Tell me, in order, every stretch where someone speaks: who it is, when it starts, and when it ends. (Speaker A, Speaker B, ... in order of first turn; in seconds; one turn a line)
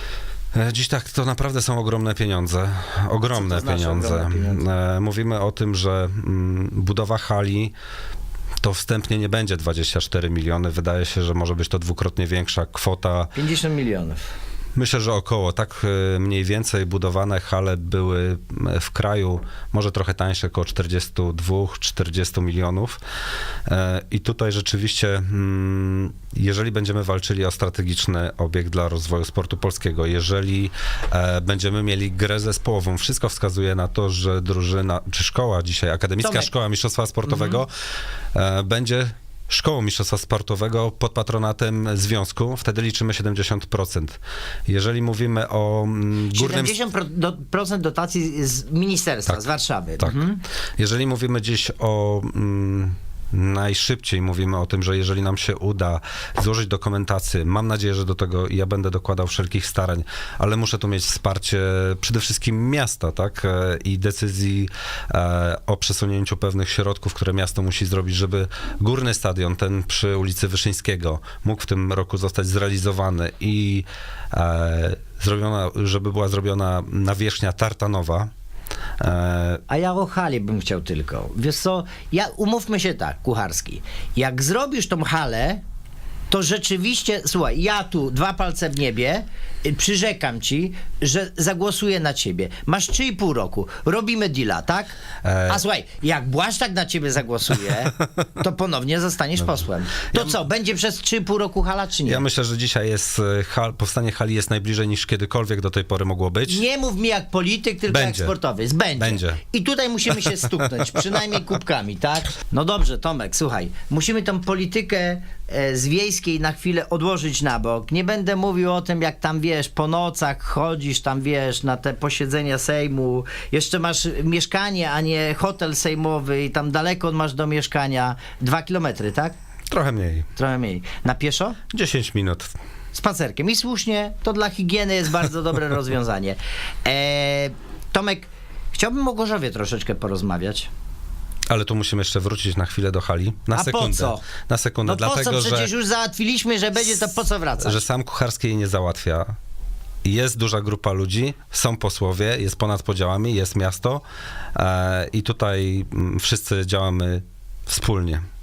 Speaker A: 0.6-7.7
Speaker B: 3.3-4.7
Speaker A: 8.6-13.3
Speaker B: 13.3-14.3
Speaker A: 14.8-23.0
Speaker A: 23.7-37.7
Speaker B: 36.2-36.5
Speaker B: 37.3-37.6
Speaker A: 38.4-46.8
Speaker B: 46.3-50.4
Speaker A: 49.3-50.3
Speaker A: 50.8-78.3
Speaker A: 79.0-79.6
Speaker B: 79.7-85.6
Speaker B: 86.3-102.3
Speaker A: 95.2-95.6
Speaker A: 102.1-106.6
Speaker B: 106.5-129.3
Speaker A: 107.9-108.3
Speaker A: 109.0-109.4
Speaker A: 129.7-130.3
Speaker B: 130.4-131.6
Speaker A: 131.7-132.5
Speaker B: 132.9-140.7
Speaker A: 141.5-145.7
Speaker B: 143.5-144.3
Speaker B: 144.8-147.9
Speaker A: 147.6-149.3
Speaker A: 150.1-154.0
Speaker A: 154.6-158.2